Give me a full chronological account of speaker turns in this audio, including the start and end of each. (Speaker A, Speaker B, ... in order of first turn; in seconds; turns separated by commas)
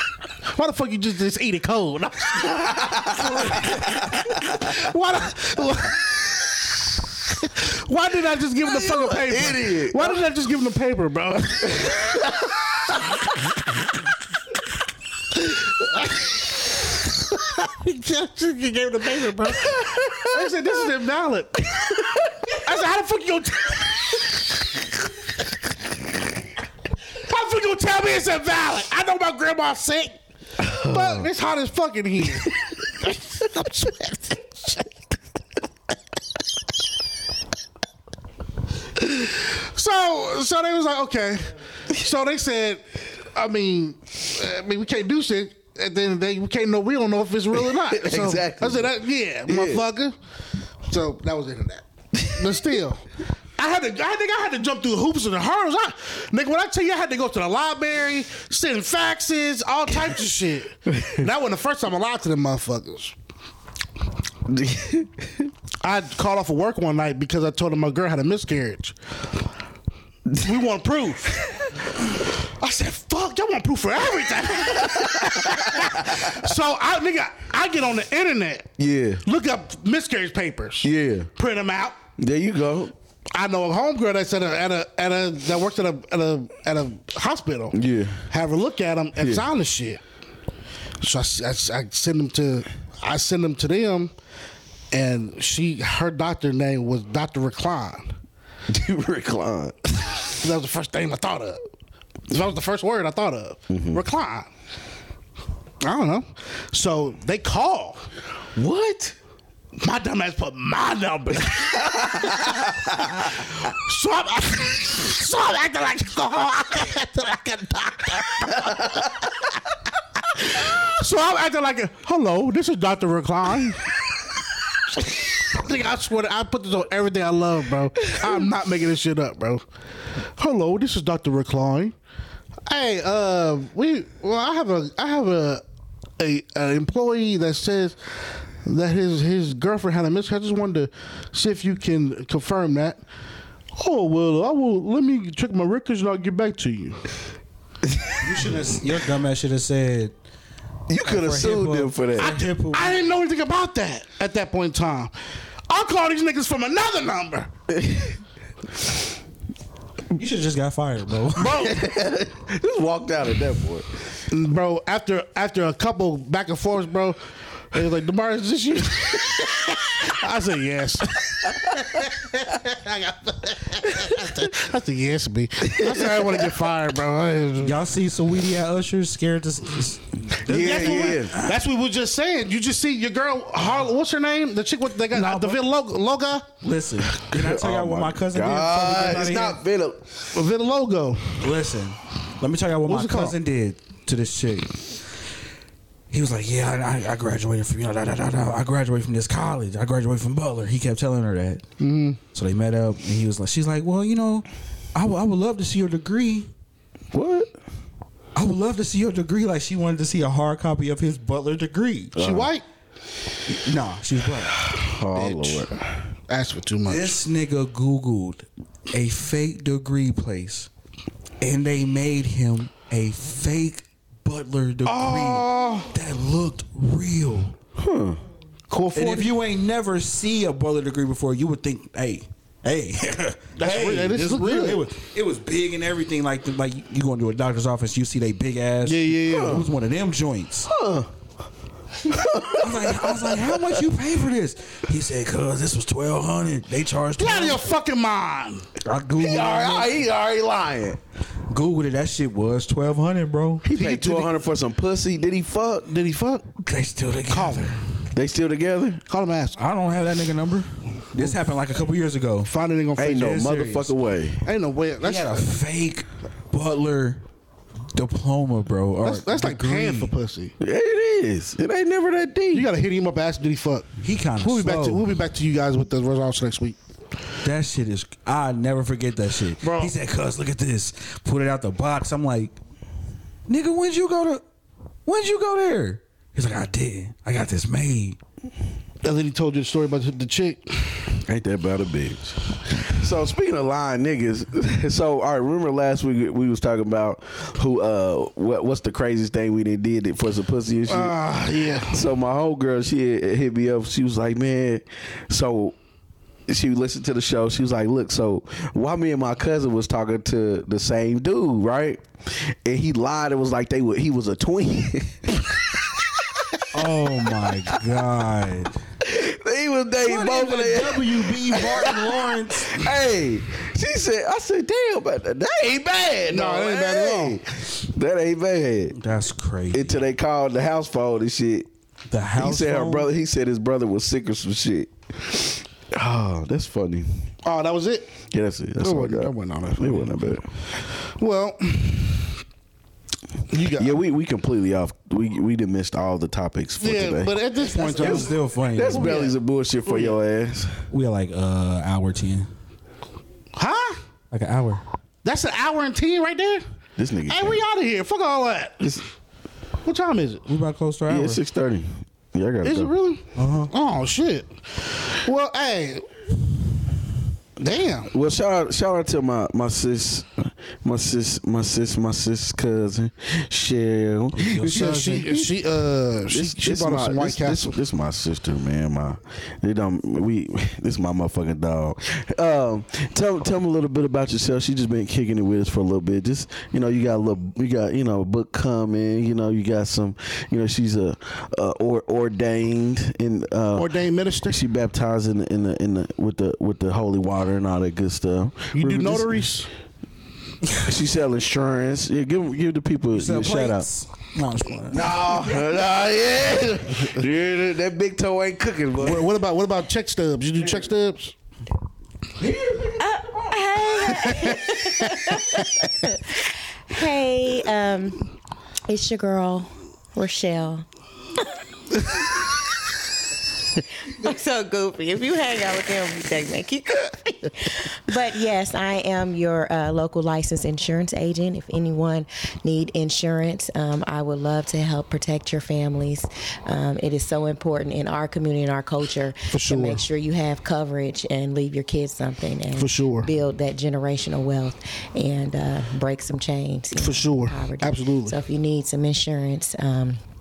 Speaker A: 0.5-6.5, Speaker B: 2.5-3.8, Speaker A: 7.2-12.2, Speaker B: 8.6-10.2, Speaker A: 15.6-16.2, Speaker A: 17.3-24.3, Speaker B: 19.7-20.3, Speaker A: 27.3-30.2, Speaker B: 30.6-31.3, Speaker A: 30.7-34.9, Speaker A: 39.0-42.8, Speaker A: 43.3-50.1, Speaker B: 47.5-48.9, Speaker B: 49.5-49.8, Speaker A: 50.9-53.0, Speaker A: 53.6-63.1, Speaker B: 64.5-65.5, Speaker A: 65.8-69.0, Speaker A: 70.3-71.5, Speaker A: 72.3-82.0, Speaker B: 74.9-75.9, Speaker B: 78.8-79.2, Speaker B: 80.8-81.3, Speaker B: 82.2-82.9, Speaker A: 83.3-87.8, Speaker B: 87.7-88.2, Speaker A: 88.3-90.0, Speaker A: 91.0-94.1, Speaker A: 94.9-98.1, Speaker B: 98.7-100.2, Speaker A: 100.3-101.6, Speaker A: 102.3-104.5, Speaker B: 103.7-104.0, Speaker A: 105.8-108.0, Speaker B: 108.5-109.2, Speaker A: 109.8-119.3, Speaker B: 112.0-112.8, Speaker A: 120.3-123.9, Speaker A: 125.0-129.6, Speaker A: 130.4-131.9, Speaker A: 132.7-135.6, Speaker A: 136.2-138.0, Speaker A: 138.6-143.0, Speaker A: 143.8-147.0, Speaker C: 148.2-150.1, Speaker B: 150.9-152.4, Speaker C: 151.0-153.0, Speaker A: 152.2-155.1, Speaker A: 155.7-157.5, Speaker B: 157.7-158.2, Speaker C: 160.1-161.6, Speaker A: 161.4-161.8, Speaker B: 161.5-163.9, Speaker A: 164.3-167.2, Speaker A: 167.7-177.7, Speaker B: 175.8-176.4, Speaker C: 177.6-181.6, Speaker B: 180.4-181.3, Speaker A: 180.5-186.5, Speaker C: 185.1-185.6, Speaker C: 186.6-189.6, Speaker B: 187.2-190.2, Speaker A: 190.3-191.4, Speaker C: 191.4-194.9, Speaker A: 192.8-193.3, Speaker C: 196.1-201.6, Speaker A: 201.8-202.2, Speaker C: 202.3-206.5, Speaker B: 207.1-207.5, Speaker C: 208.3-212.1, Speaker B: 212.1-212.5, Speaker A: 212.2-212.6, Speaker C: 213.5-215.7, Speaker B: 214.6-216.0, Speaker A: 216.3-217.1, Speaker C: 216.9-220.7, Speaker C: 221.4-227.5, Speaker A: 224.8-225.9, Speaker B: 227.8-228.2, Speaker A: 228.7-229.3, Speaker C: 228.9-240.7, Speaker A: 233.6-234.8, Speaker A: 238.8-239.7, Speaker B: 239.2-239.7, Speaker B: 240.7-241.1, Speaker B: 242.0-243.8, Speaker C: 242.5-247.7, Speaker A: 247.2-248.7, Speaker C: 248.8-250.1, Speaker B: 249.2-251.0, Speaker C: 251.5-253.7, Speaker B: 253.6-255.9, Speaker A: 253.7-254.3, Speaker A: 255.8-256.5, Speaker C: 256.6-257.8, Speaker A: 257.3-257.8, Speaker B: 258.1-259.0, Speaker A: 259.1-259.6, Speaker C: 259.6-262.5, Speaker A: 262.4-263.4, Speaker B: 263.0-264.4, Speaker C: 263.1-263.9, Speaker A: 264.4-265.5, Speaker C: 265.0-267.2, Speaker C: 267.9-270.1, Speaker A: 269.0-270.5, Speaker B: 270.6-272.7, Speaker A: 272.5-276.8, Speaker C: 274.0-275.1, Speaker C: 277.4-282.6, Speaker A: 279.6-279.9, Speaker C: 283.5-284.4, Speaker C: 285.1-288.2, Speaker A: 289.0-291.1, Speaker B: 291.2-301.2, Speaker A: 300.9-302.0, Speaker B: 301.9-305.8, Speaker B: 306.5-316.6, Speaker C: 316.7-318.8, Speaker B: 319.0-328.9, Speaker C: 320.0-322.8, Speaker A: 326.3-327.4, Speaker C: 328.9-330.0, Speaker B: 329.7-331.7, Speaker C: 332.1-333.1, Speaker B: 332.4-337.3, Speaker A: 337.4-338.2, Speaker B: 338.3-340.5, Speaker A: 338.8-340.1, Speaker A: 340.9-342.4, Speaker A: 343.5-344.0, Speaker B: 343.8-347.3, Speaker A: 346.8-348.3, Speaker C: 347.6-349.2, Speaker B: 348.0-350.8, Speaker A: 348.9-349.4, Speaker A: 349.9-350.1, Speaker C: 350.9-352.5, Speaker A: 353.6-354.0, Speaker C: 354.3-354.8, Speaker A: 355.2-356.6, Speaker B: 356.9-357.6, Speaker A: 357.3-358.9, Speaker A: 359.8-360.4, Speaker C: 360.5-361.4, Speaker B: 361.1-362.9, Speaker A: 362.6-366.1, Speaker C: 363.4-363.7, Speaker A: 367.6-368.1, Speaker B: 368.1-374.5, Speaker C: 374.3-375.5, Speaker A: 374.5-377.8, Speaker B: 376.3-393.9, Speaker A: 393.7-394.6, Speaker B: 394.4-399.4, Speaker A: 398.7-399.7, Speaker B: 400.8-403.9, Speaker C: 403.1-405.2, Speaker B: 404.9-409.3, Speaker A: 409.0-411.3, Speaker C: 412.4-412.9, Speaker D: 413.0-418.3, Speaker A: 414.1-414.6, Speaker D: 418.9-420.8, Speaker D: 422.2-422.5, Speaker D: 424.0-450.2, Speaker A: 439.5-440.1, Speaker A: 442.7-443.3, Speaker A: 446.9-448.4